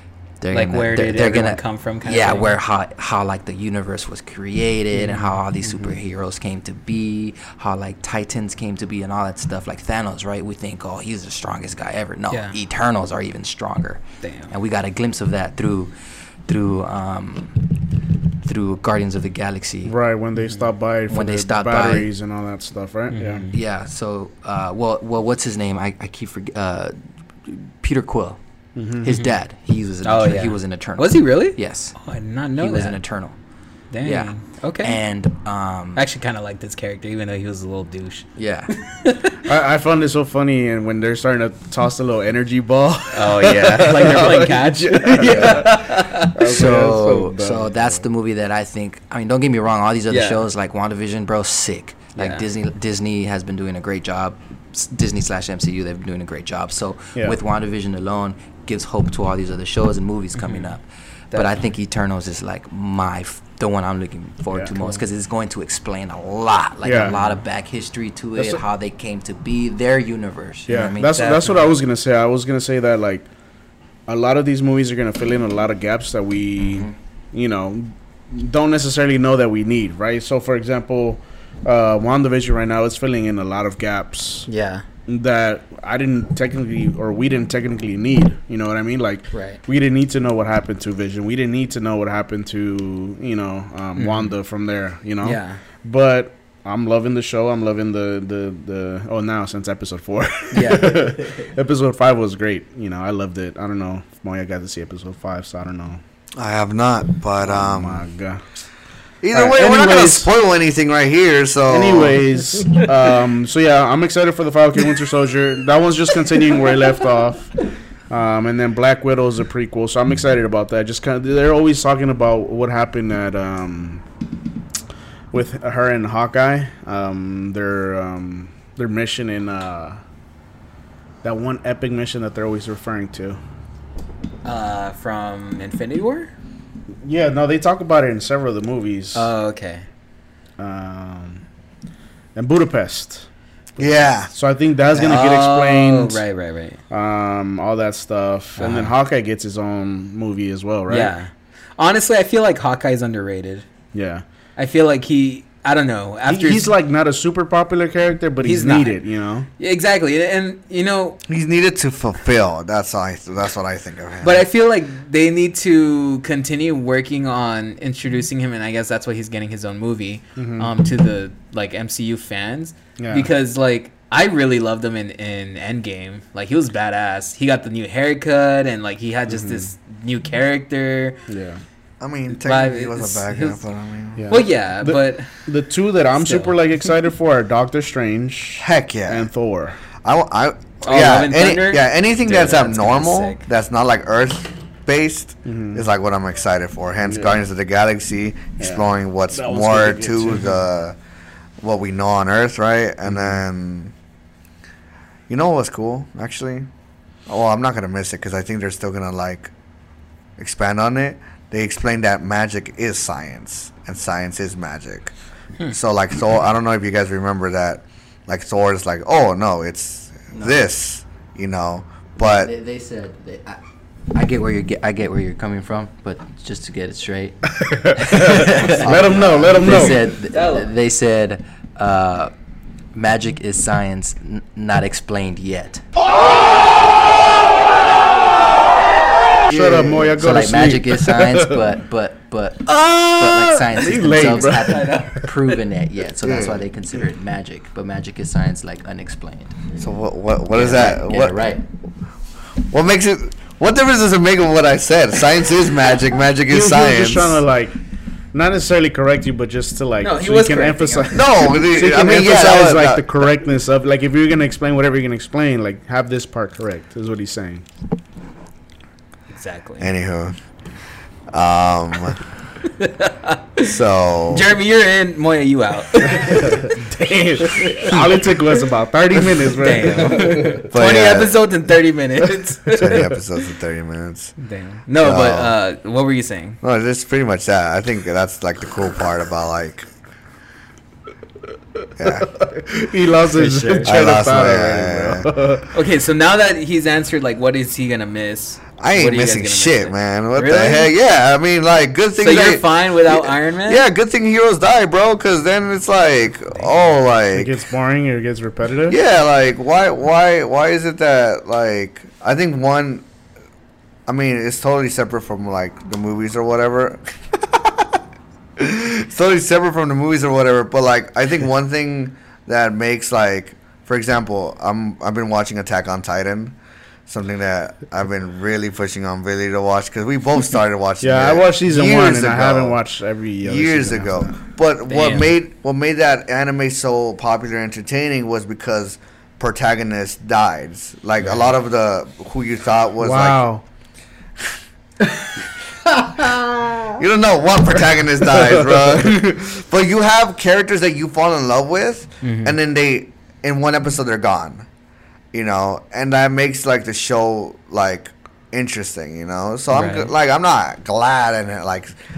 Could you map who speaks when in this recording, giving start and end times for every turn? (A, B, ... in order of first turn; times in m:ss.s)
0:00.4-0:15.9 A
0:00.5-0:02.5 B
0:05.0-0:05.9 C
0:12.3-0:12.6 B
0:14.2-0:14.5 B
0:16.5-0:17.8 A
0:18.4-0:19.9 A
0:19.8-0:23.4 C
0:20.4-0:20.7 B
0:21.1-0:22.1 A
0:23.1-0:23.5 B
0:23.5-0:26.9 A
0:27.4-0:28.4 A
0:28.8-0:29.1 C
0:29.0-0:31.9 A
0:30.0-0:33.0 B
0:32.6-0:33.3 A
0:33.9-0:35.0 B
0:34.0-0:36.0 A
0:36.0-0:39.4 B
0:38.4-0:38.7 A
0:39.4-0:48.0 C
0:43.1-0:46.4 B
0:46.4-1:11.2 A
0:50.1-0:50.4 B
0:52.2-0:52.4 B
1:00.4-1:00.7 B
1:04.5-1:05.0 C
1:06.8-1:07.2 C
1:10.7-1:13.2 C
1:11.1-1:11.7 B
1:14.1-1:24.5 C
1:16.6-1:16.9 A
1:24.5-1:24.8 B
1:25.1-1:46.0 C
1:29.3-1:29.6 B
1:34.0-1:34.3 B
1:35.2-1:35.6 B
1:40.5-1:41.0 B
1:46.4-1:48.0 D
1:47.4-1:48.4 C
1:49.2-1:52.2 D
1:49.3-1:50.3 C
1:51.7-1:57.6 C
1:58.1-2:04.0 C
2:05.3-2:10.0 C
2:11.2-2:13.4 C
2:14.4-2:16.3 B
2:17.0-2:19.3 C
2:19.1-2:19.8 B
2:20.6-2:21.4 C
2:22.3-2:23.2 C
2:23.8-2:24.3 D
2:24.3-2:26.2 C
2:24.9-2:26.8 B
2:26.9-2:31.1 C
2:28.6-2:28.9 B
2:30.9-2:33.6 B
2:33.9-2:34.2 C
2:34.6-2:36.7 B
2:36.3-2:39.5 C
2:38.4-2:39.0 B
2:39.6-2:41.2 B
2:41.3-2:44.5 D
2:44.2-3:01.2 B
2:50.4-2:50.7 C
2:53.0-2:53.3 C
2:59.3-2:59.7 C
3:01.3-3:01.6 C
3:02.0-3:04.2 D
3:02.3-3:03.6 B
3:04.2-3:09.8 C
3:04.3-3:05.3 B
3:06.2-3:06.6 B
3:08.6-3:09.3 D
3:10.0-3:21.0 D
3:10.8-3:13.4 B
3:15.4-3:15.8 C
3:17.0-3:17.4 C
3:18.6-3:20.6 C
3:21.6-3:23.9 D
3:23.0-3:23.4 C
3:25.3-3:26.7 D
3:27.3-3:29.5 D
3:30.4-3:35.1 D
3:35.6-3:42.5 D
3:40.3-3:40.6 A
3:42.2-3:43.6 A
3:44.1-3:47.4 A
3:47.6-3:50.1 C
3:47.9-3:52.3 A
3:49.6-3:50.7 B
3:52.9-3:55.8 A
3:59.5-4:01.6 C
3:59.5-4:00.1 D
4:00.2-4:09.7 A
4:02.7-4:05.1 C
4:04.1-4:05.3 B
4:06.2-4:06.6 D
4:09.8-4:11.5 D
4:10.5-4:11.6 A
4:12.7-4:17.4 D
4:16.5-4:17.8 C
4:18.3-4:27.6 C
4:20.0-4:21.2 B
4:21.1-4:23.0 D
4:29.3-4:29.9 B
4:29.8-4:30.4 D
4:31.3-4:32.2 D
4:32.8-4:33.7 B
4:33.6-4:34.5 D
4:34.3-4:36.8 B
4:36.1-4:40.7 C
4:37.6-4:38.0 B
4:39.6-4:43.1 B
4:40.7-4:41.4 D
4:42.7-4:44.3 D
4:44.4-4:46.6 B
4:44.9-4:45.6 D
4:46.6-4:49.9 D
4:52.0-4:52.3 D
4:52.4-4:55.7 C
4:53.4-4:53.8 A
4:53.5-4:53.8 B
4:53.8-4:55.3 D
4:55.7-5:00.9 B
4:58.8-5:07.6 D
5:02.2-5:03.8 B
5:07.3-5:09.0 C
5:08.9-5:13.0 D
5:14.1-5:18.0 D
5:18.6-5:26.6 D
5:27.1-5:32.8 D
5:31.0-5:34.4 C
5:33.4-5:43.5 D
5:34.9-5:35.3 B
5:43.0-5:43.6 C
5:47.0-5:54.7 D
5:52.2-5:52.6 B
5:55.3-6:01.9 D
5:59.7-6:00.1 B